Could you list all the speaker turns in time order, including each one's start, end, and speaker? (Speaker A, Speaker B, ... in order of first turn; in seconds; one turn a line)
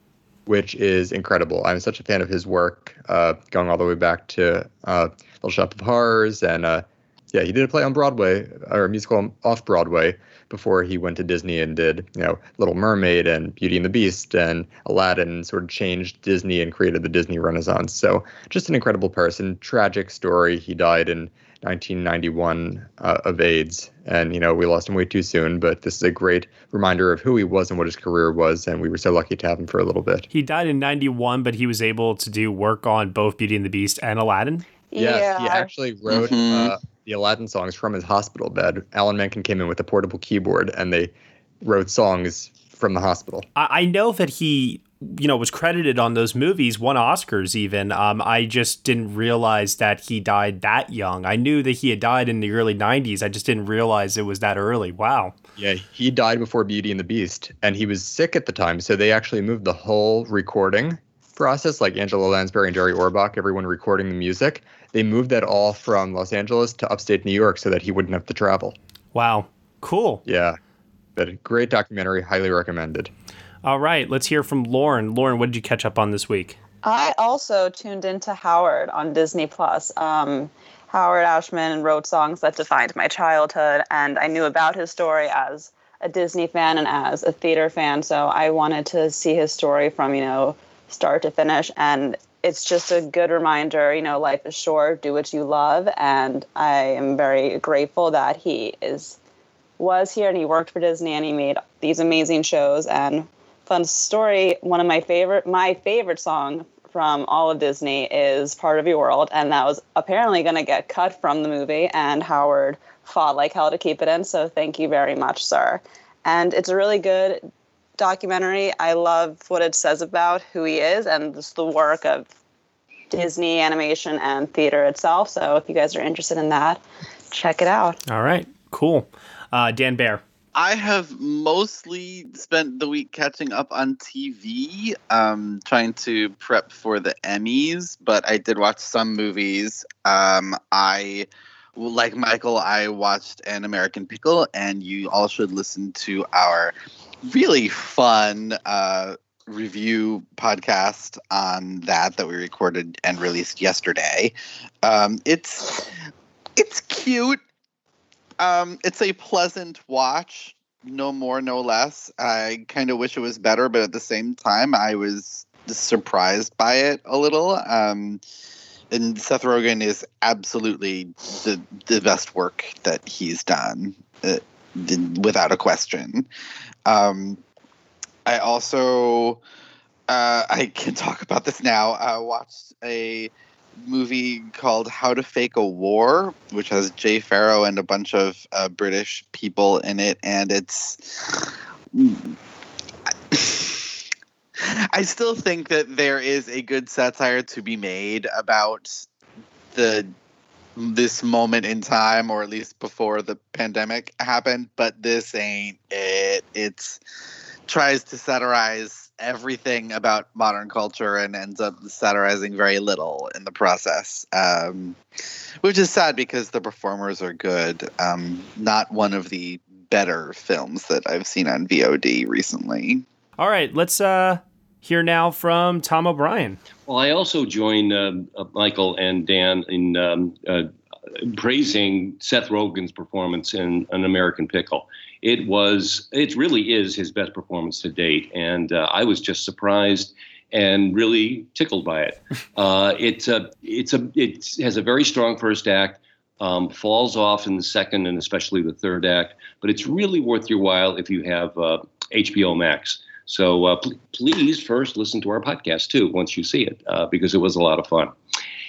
Speaker A: 0.5-30.3
Speaker B: 30.3-34.6
Speaker C: 34.9-35.7
Speaker A: 35.0-43.5
Speaker D: 36.1-36.8
Speaker B: 43.6-55.4
Speaker A: 55.6-68.8
Speaker B: 69.1-70.2
Speaker A: 70.3-70.6
Speaker A: 71.2-73.1
Speaker B: 73.6-76.6
Speaker C: 76.8-99.2
Speaker C: 99.8-117.4
Speaker C: 118.0-122.3
Speaker C: 123.1-126.8
Speaker C: 127.3-128.0
Speaker B: 128.1-130.2
Speaker D: 130.6-155.9
Speaker D: 156.6-157.4
Speaker D: 158.4-168.2
Speaker D: 168.9-176.3
Speaker D: 176.9-177.4
Speaker D: 178.3-179.4
Speaker D: 180.1-183.3
Speaker D: 183.8-192.3
Speaker D: 193.3-193.9
Speaker D: 194.6-199.0
Speaker D: 199.7-200.1
Speaker D: 200.8-207.0
Speaker D: 207.7-215.0
Speaker D: 215.6-223.0
Speaker B: 223.4-226.6
Speaker E: 226.9-230.7
Speaker E: 231.2-258.1